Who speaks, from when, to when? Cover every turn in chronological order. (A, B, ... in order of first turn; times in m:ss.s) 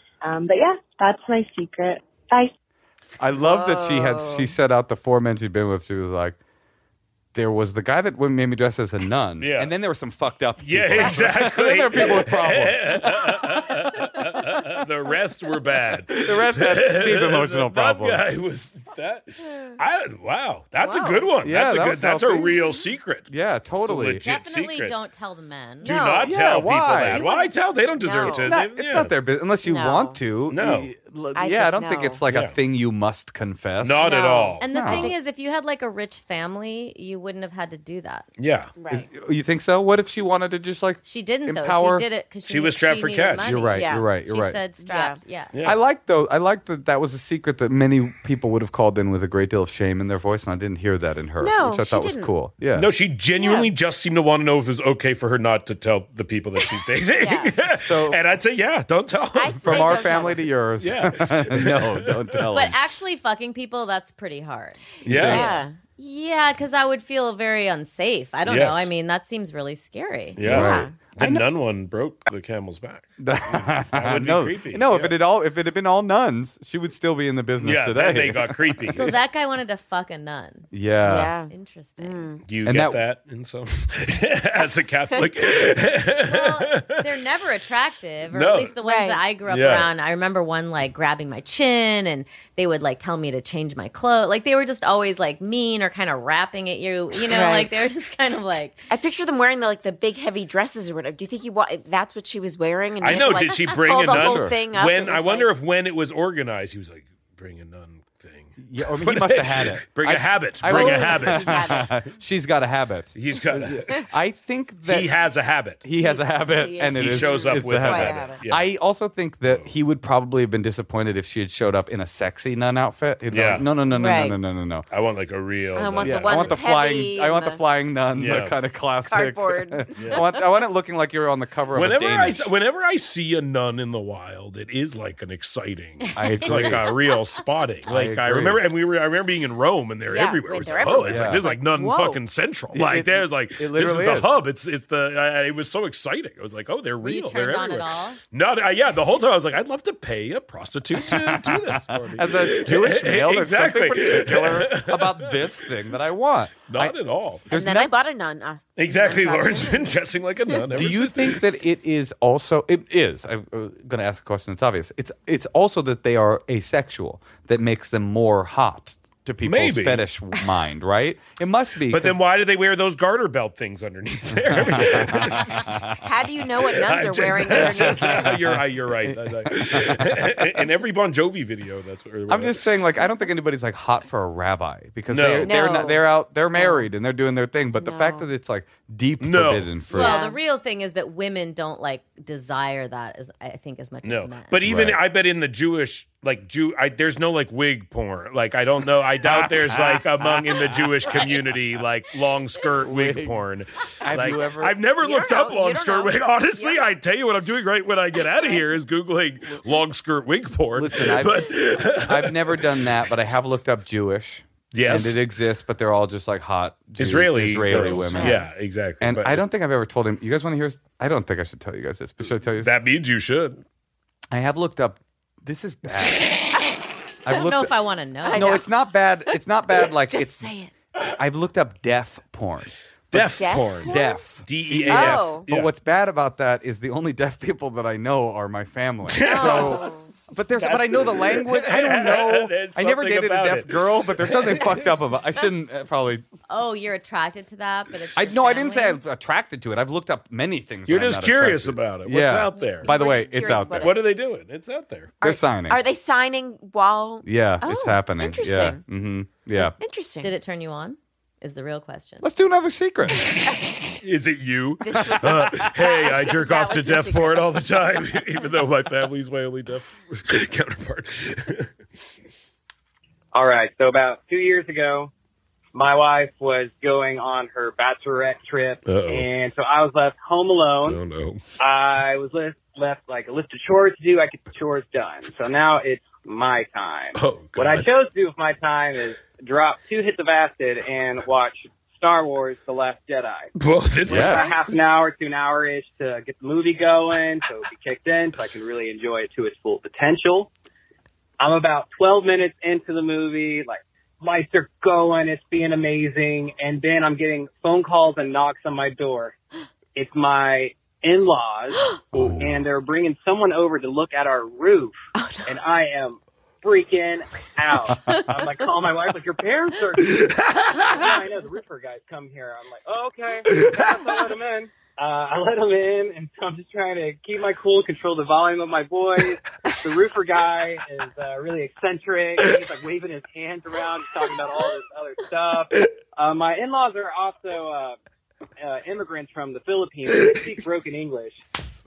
0:00.2-0:02.5 A
0:03.2-0:06.4 B
0:03.4-0:04.5 C
0:07.3-0:13.4 B
0:09.4-0:09.7 D
0:10.6-0:23.3 D
0:16.2-0:18.2 B
0:20.8-0:21.3 C
0:21.4-0:22.6 B
0:23.3-0:24.2 B
0:23.8-0:25.0 D
0:24.2-0:26.0 E
0:25.8-0:28.6 C
0:25.8-0:29.1 D
0:26.2-0:27.2 B
0:28.3-0:34.2 B
0:29.6-0:30.2 C
0:30.5-0:30.9 D
0:31.4-0:32.2 C
0:33.8-0:34.6 D
0:34.1-0:35.2 C
0:34.6-0:38.3 E
0:34.7-0:35.1 B
0:38.4-0:38.7 D
0:38.8-0:39.1 C
0:38.9-0:42.1 B
0:41.0-0:45.5 E
0:42.5-0:43.6 D
0:43.4-0:44.6 B
0:43.7-0:44.1 C
0:44.8-0:45.2 C
0:45.6-0:52.9 B
0:51.4-0:52.3 C
0:52.8-1:00.1 D
0:53.4-0:53.7 C
0:57.2-0:57.6 C
0:57.7-0:58.2 B
0:59.3-1:00.5 C
0:59.6-1:02.8 B
1:00.8-1:02.5 D
1:02.5-1:04.8 E
1:05.0-1:05.6 B
1:05.1-1:05.5 D
1:05.2-1:05.8 C
1:06.0-1:10.4 E
1:08.5-1:08.9 D
1:10.4-1:15.2 D
1:10.4-1:11.4 B
1:10.5-1:11.0 C
1:13.2-1:19.2 B
1:17.6-1:19.1 D
1:18.9-1:20.7 E
1:20.7-1:21.3 B
1:21.0-1:22.4 C
1:21.5-1:22.3 E
1:22.4-1:27.0 D
1:22.6-1:23.0 B
1:26.3-1:38.9 E
1:28.3-1:28.7 D
1:28.8-1:29.2 C
1:29.5-1:29.9 D
1:37.2-1:37.7 C
1:38.9-1:45.5 C
1:43.0-1:51.9 D
1:44.0-1:44.6 B
1:48.6-1:55.1 B
1:50.6-1:51.9 C
1:53.2-1:54.1 D
1:54.8-1:55.8 D
1:55.8-2:04.9 B
1:56.0-1:58.4 C
1:56.9-1:58.7 D
1:59.5-1:59.7 D
2:03.3-2:03.7 D
2:03.9-2:04.4 C
2:04.9-2:06.6 D
2:05.8-2:07.6 C
2:06.0-2:12.5 B
2:08.1-2:08.6 D
2:09.0-2:10.4 C
2:10.0-2:10.2 D
2:11.7-2:35.7 D
2:16.2-2:16.9 B
2:17.9-2:18.6 B
2:20.1-2:22.2 C
2:21.0-2:21.5 B
2:22.7-2:24.4 B
2:27.0-2:28.2 E
2:31.1-2:37.0 B
2:36.7-2:37.5 D
2:37.5-2:37.9 B
2:37.5-2:39.9 C
2:38.8-2:41.4 D
2:40.7-2:52.2 B
2:49.4-2:50.0 D
2:51.9-2:55.8 D
2:54.5-2:56.0 B
2:55.9-2:58.4 C
2:56.7-3:02.7 D
2:57.5-3:00.7 B
3:02.3-3:10.2 B
3:05.1-3:05.6 D
3:05.4-3:06.9 C
3:07.8-3:08.3 C
3:09.2-3:09.7 D
3:09.9-3:10.4 C
3:09.9-3:14.6 E
3:14.0-3:32.7 D
3:14.6-3:15.0 B
3:19.2-3:20.9 B
3:22.8-3:23.4 B
3:24.0-3:24.8 B
3:25.0-3:26.8 C
3:28.3-3:28.6 C
3:30.8-3:38.4 B
3:34.7-3:35.2 D
3:37.0-3:39.4 D
3:37.7-3:38.4 C
3:39.0-3:42.7 B
3:42.6-3:43.6 D
3:44.3-3:46.3 B
3:46.5-3:47.4 C
3:47.2-3:47.7 B
3:47.3-3:48.6 E
3:48.3-3:48.7 C
3:48.3-3:50.5 B
3:50.1-3:50.7 C
3:51.0-4:06.3 B
3:53.1-3:55.7 D
3:53.3-3:54.2 C
3:54.9-3:55.4 C
3:59.1-3:59.9 D
3:59.2-4:00.1 C
4:00.6-4:04.9 D
4:06.5-4:09.0 E
4:08.2-4:14.0 B
4:10.9-4:13.0 D
4:12.6-4:14.0 C
4:13.7-4:15.1 D
4:15.2-4:18.8 C
4:15.2-4:15.8 B
4:17.2-4:19.8 B
4:19.6-4:20.3 C
4:20.2-4:22.3 E
4:22.2-4:23.3 B
4:24.0-4:31.7 D
4:24.8-4:27.6 C
4:33.3-4:35.1 F
4:35.7-4:41.0 F
4:38.9-4:39.3 D
4:40.8-4:41.4 D
4:41.6-4:53.5 F
4:47.2-4:47.9 D
4:53.6-4:54.8 D
4:54.1-4:54.5 B
4:54.1-5:00.5 F
5:01.4-5:09.4 F
5:10.0-5:11.8 F
5:12.1-5:12.6 B
5:12.4-5:20.3 F
5:15.2-5:15.6 C
5:20.2-5:20.8 D
5:20.9-5:38.0 F
5:23.5-5:23.8 D
5:38.6-5:41.4 F